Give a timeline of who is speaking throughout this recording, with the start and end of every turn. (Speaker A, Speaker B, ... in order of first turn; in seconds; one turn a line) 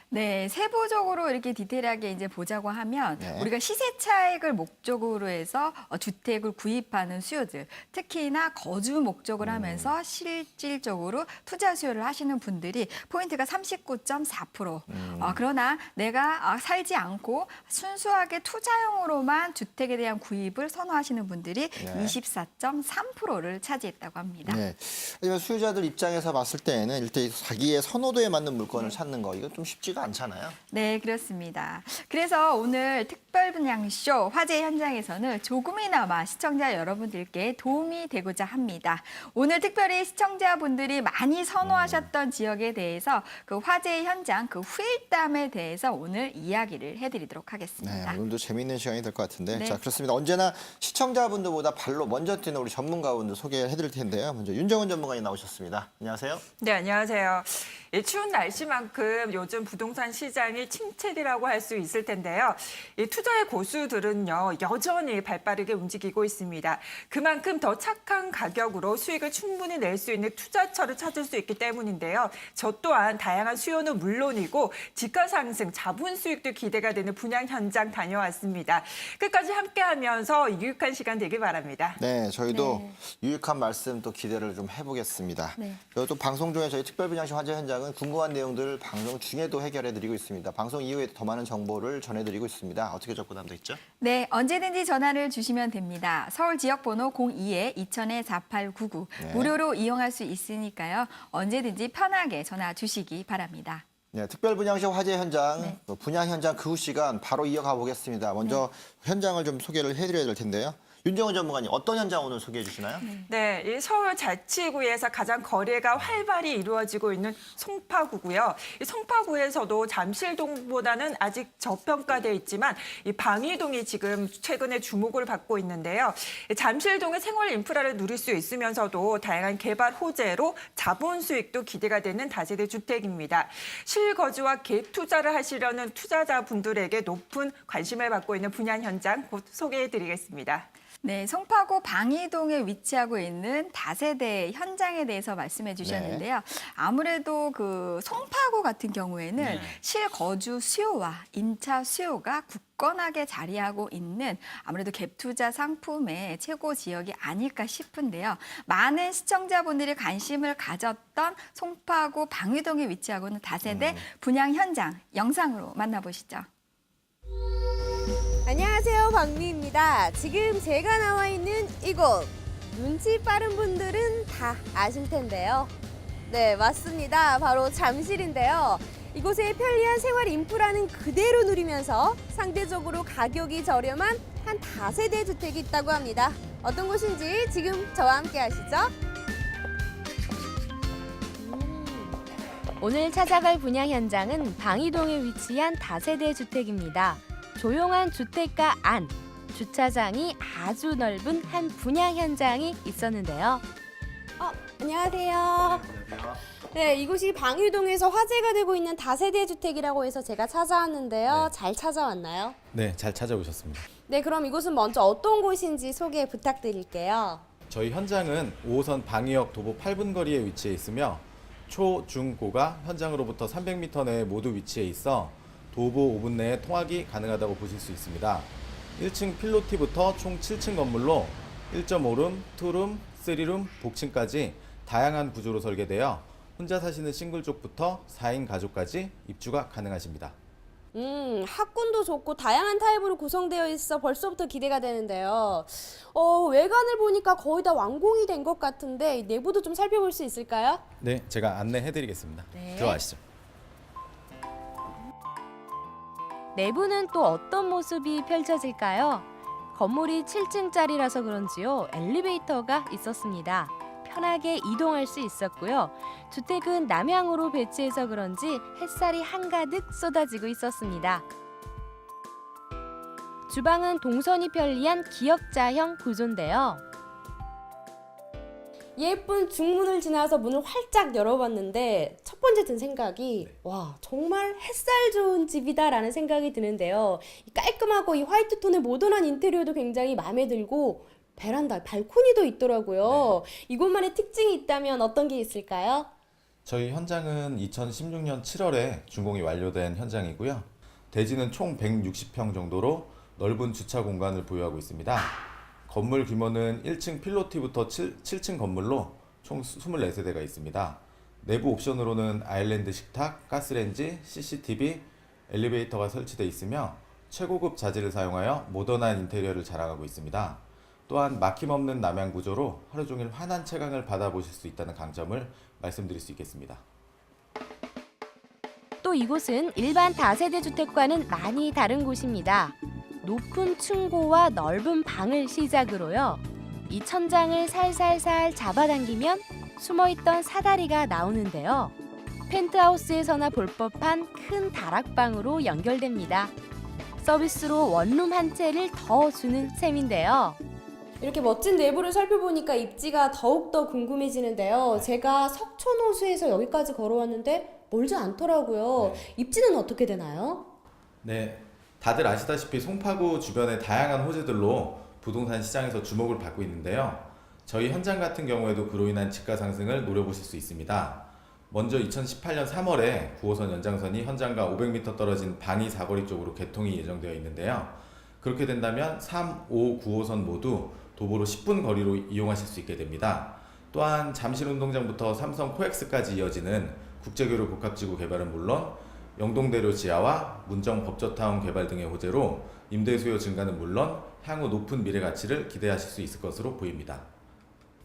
Speaker A: 0.1-24.6
Speaker B: 3.2-3.5
Speaker B: 9.4-9.9
Speaker B: 14.9-15.4
Speaker B: 21.8-22.2
Speaker B: 24.4-30.6
Speaker A: 30.7-48.2
Speaker B: 41.6-42.1
Speaker B: 47.8-56.4
Speaker A: 49.5-49.8
Speaker C: 56.6-82.0
Speaker B: 82.0-93.8
Speaker A: 82.5-83.0
Speaker A: 94.0-103.8
Speaker B: 99.2-99.5
Speaker B: 104.1-113.0
Speaker A: 113.0-113.3
Speaker C: 113.3-140.7
Speaker A: 141.0-166.5
Speaker B: 145.8-146.2
Speaker B: 149.4-149.8
Speaker B: 163.6-164.0
Speaker D: 168.4-175.7
Speaker D: 176.3-188.9
Speaker D: 191.4-192.1
Speaker E: 192.8-203.6
Speaker D: 204.4-205.9
Speaker D: 206.7-212.6
Speaker F: 211.2-211.5
Speaker F: 212.7-213.8
Speaker D: 214.1-217.4
Speaker F: 217.7-240.3
Speaker D: 240.9-250.8
Speaker F: 251.0-253.2
Speaker D: 252.6-252.9
Speaker E: 256.5-271.2
Speaker E: 273.5-276.8
Speaker D: 279.0-296.1
Speaker F: 293.0-293.4
Speaker F: 296.6-326.8
Speaker E: 329.0-341.9
Speaker E: 342.5-346.5
Speaker E: 347.2-350.6
Speaker D: 351.2-360.7
Speaker F: 359.0-359.3
Speaker F: 361.2-397.3